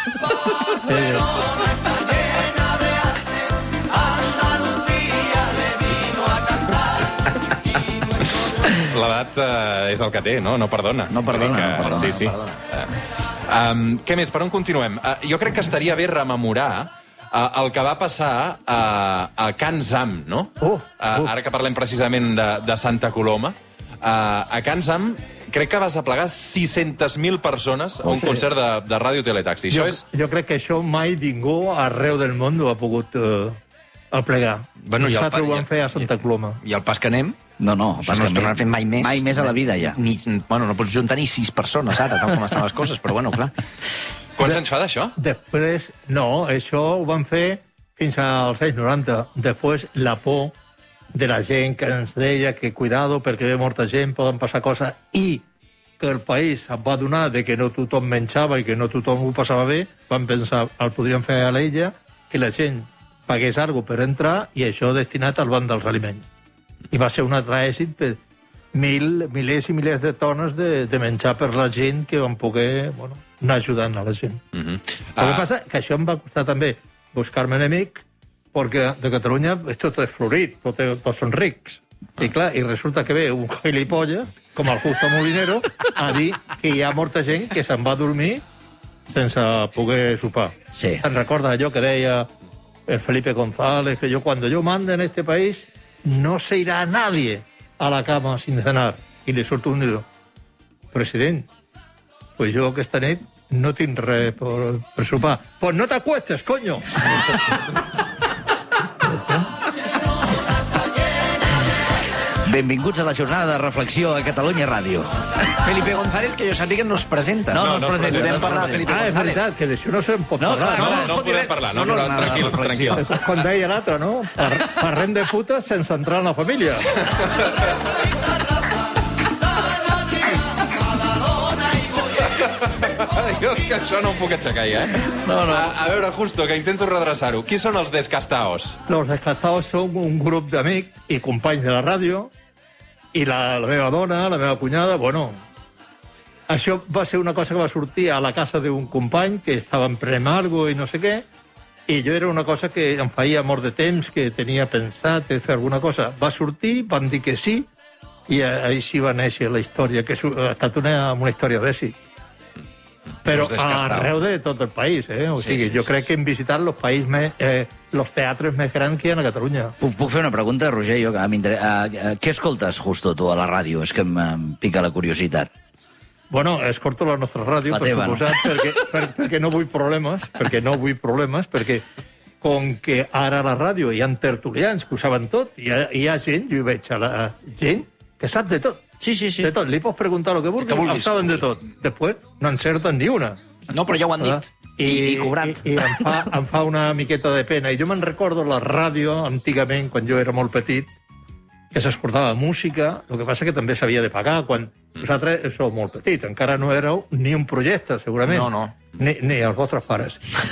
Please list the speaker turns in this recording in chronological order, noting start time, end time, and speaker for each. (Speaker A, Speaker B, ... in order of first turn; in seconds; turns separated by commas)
Speaker A: 0.8-1.4, Speaker B: 8.6-12.9, Speaker C: 11.1-12.5, Speaker B: 13.5-30.0, Speaker A: 20.6-21.3, Speaker A: 28.0-28.5, Speaker A: 29.7-33.6, Speaker A: 34.1-36.6, Speaker D: 34.8-35.7, Speaker D: 36.6-37.4, Speaker C: 37.6-40.0, Speaker D: 38.0-43.5, Speaker B: 44.4-45.1, Speaker A: 45.1-50.5, Speaker A: 51.1-55.4, Speaker A: 56.0-66.3, Speaker A: 66.9-68.2, Speaker A: 68.7-74.4, Speaker B: 74.5-75.5, Speaker A: 75.2-88.4, Speaker A: 89.1-92.3, Speaker C: 90.7-91.0, Speaker A: 92.9-100.0, Speaker A: 100.9-101.5, Speaker A: 102.4-107.1, Speaker A: 109.0-109.5, Speaker C: 112.4-115.5, Speaker D: 115.6-119.4, Speaker C: 117.5-119.4, Speaker B: 117.6-118.4, Speaker A: 118.2-121.0, Speaker C: 120.4-123.1, Speaker B: 120.7-123.1, Speaker D: 120.8-123.0, Speaker A: 123.0-127.0, Speaker B: 132.4-138.8, Speaker C: 135.2-135.7, Speaker A: 138.9-142.3, Speaker A: 143.1-145.4, Speaker A: 146.5-151.2, Speaker A: 151.9-157.7, Speaker A: 158.3-162.0, Speaker A: 163.2-169.8, Speaker D: 163.3-164.1, Speaker C: 169.8-175.5, Speaker A: 176.3-181.8, Speaker C: 177.7-178.2, Speaker A: 182.4-188.8, Speaker C: 189.0-189.5, Speaker A: 189.4-193.4, Speaker D: 190.6-191.4, Speaker D: 193.7-194.4, Speaker A: 194.2-200.9, Speaker C: 194.8-195.7, Speaker A: 201.7-210.2, Speaker D: 208.2-208.8